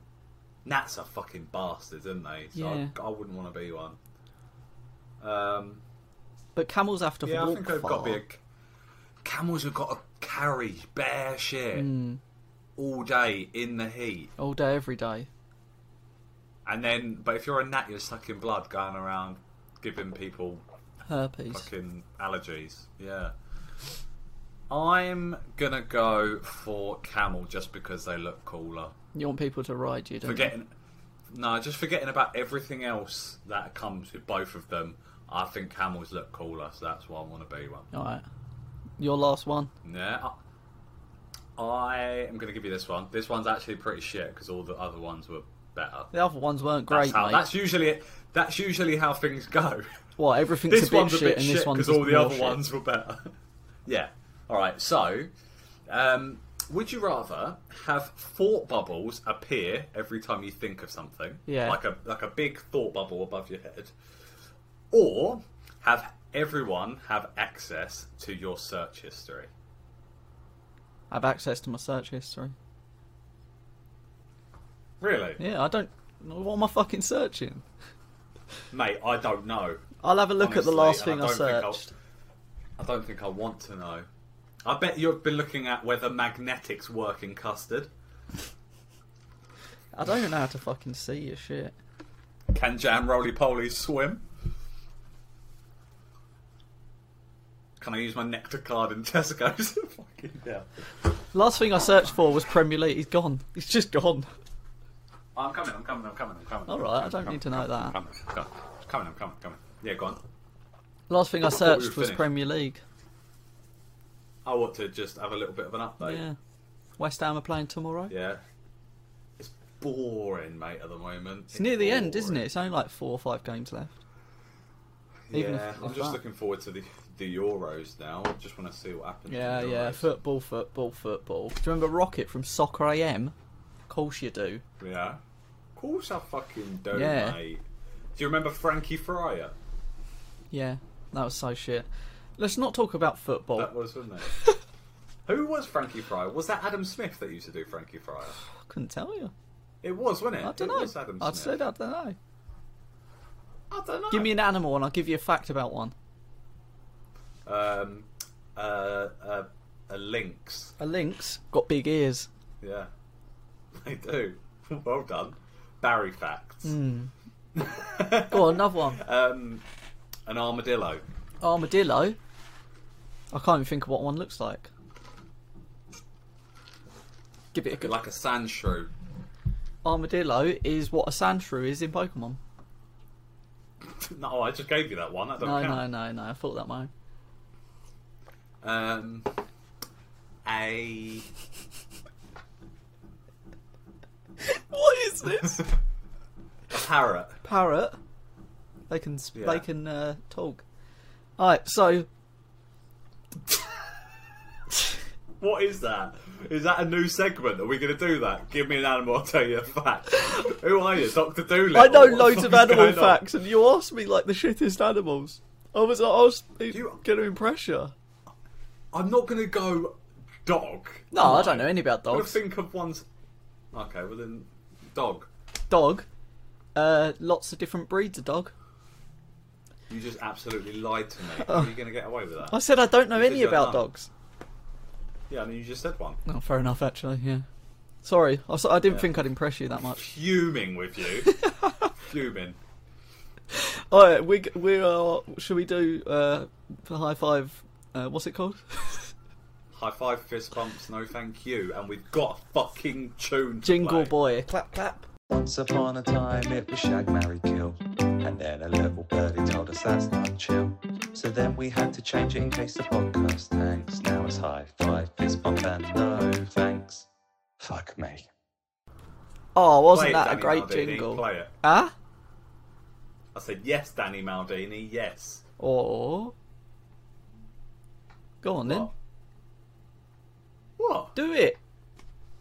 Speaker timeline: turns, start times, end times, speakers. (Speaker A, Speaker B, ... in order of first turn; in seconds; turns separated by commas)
Speaker A: 0.6-4.0, Speaker B: 2.5-2.9, Speaker A: 5.2-5.8, Speaker B: 6.5-8.2, Speaker A: 7.2-8.4, Speaker A: 9.2-11.9, Speaker B: 11.7-12.2, Speaker A: 12.8-14.3, Speaker B: 14.4-15.3, Speaker A: 16.6-20.6, Speaker B: 21.1-21.7, Speaker A: 21.5-23.3, Speaker A: 24.7-28.9, Speaker B: 29.1-30.5, Speaker A: 30.2-30.7, Speaker A: 31.3-37.9, Speaker B: 37.9-38.2, Speaker B: 39.0-39.7, Speaker A: 39.8-40.4, Speaker A: 41.6-46.1, Speaker B: 46.1-47.5, Speaker A: 46.9-50.0, Speaker B: 50.2-52.6, Speaker A: 50.6-53.3, Speaker A: 53.9-55.3, Speaker A: 55.9-63.9, Speaker B: 61.5-61.8, Speaker A: 64.9-69.5, Speaker B: 71.1-72.5, Speaker A: 75.0-75.4, Speaker B: 75.4-77.6, Speaker A: 78.7-79.8, Speaker B: 80.0-81.9, Speaker A: 80.4-81.9, Speaker A: 82.8-84.1, Speaker A: 84.6-87.9, Speaker B: 89.9-91.7, Speaker A: 92.5-94.2, Speaker A: 97.8-100.8, Speaker B: 101.3-104.3, Speaker A: 105.3-110.2, Speaker B: 106.7-108.0, Speaker B: 111.1-112.8, Speaker A: 111.4-112.3, Speaker A: 114.4-116.2, Speaker B: 116.0-116.3, Speaker B: 117.0-118.1, Speaker A: 118.1-118.4, Speaker A: 119.4-122.4, Speaker B: 121.5-124.0, Speaker A: 125.3-130.1, Speaker B: 125.3-126.2, Speaker B: 129.3-133.3, Speaker B: 133.9-134.6, Speaker A: 134.8-135.2, Speaker A: 135.8-137.6, Speaker B: 136.9-137.4, Speaker A: 138.2-139.5, Speaker B: 140.5-143.7, Speaker A: 143.6-144.3, Speaker A: 145.3-148.4, Speaker B: 148.7-149.3, Speaker A: 149.8-151.6, Speaker B: 150.4-152.2, Speaker A: 153.7-154.3, Speaker B: 154.1-155.9, Speaker A: 157.4-160.7, Speaker B: 160.8-162.3, Speaker A: 162.6-162.9, Speaker A: 163.8-166.8, Speaker B: 166.6-167.1, Speaker A: 167.6-169.6, Speaker B: 168.2-169.0, Speaker A: 170.2-171.0, Speaker B: 171.4-172.2, Speaker B: 173.3-174.7, Speaker B: 177.5-177.9, Speaker A: 177.7-178.9, Speaker B: 179.8-182.4, Speaker A: 183.9-185.9, Speaker B: 185.4-186.9, Speaker A: 188.6-189.3, Speaker A: 190.4-191.3, Speaker B: 194.4-195.7, Speaker A: 196.7-197.4, Speaker B: 197.4-198.0, Speaker B: 198.9-200.6, Speaker A: 199.3-199.6, Speaker B: 201.4-202.1, Speaker A: 205.4-213.2, Speaker B: 211.7-217.9, Speaker A: 216.7-217.0, Speaker A: 218.9-223.1, Speaker B: 221.1-222.4, Speaker A: 223.7-225.3, Speaker B: 225.7-226.1, Speaker B: 226.7-228.5, Speaker A: 229.9-232.6, Speaker B: 231.4-231.7, Speaker B: 232.5-234.1, Speaker A: 233.1-233.9, Speaker A: 235.3-236.2, Speaker B: 236.2-237.4, Speaker B: 238.0-240.0, Speaker A: 238.9-239.1, Speaker A: 239.9-241.4, Speaker B: 241.4-241.8, Speaker A: 242.0-242.6, Speaker B: 243.5-249.1, Speaker A: 249.7-254.1, Speaker B: 253.6-255.1, Speaker C: 255.3-267.1, Speaker C: 267.6-268.3, Speaker B: 269.5-271.9, Speaker A: 269.9-271.5, Speaker A: 273.3-275.4, Speaker B: 275.6-276.3, Speaker B: 278.4-278.9, Speaker A: 278.6-278.9, Speaker A: 280.8-281.1, Speaker B: 281.1-281.6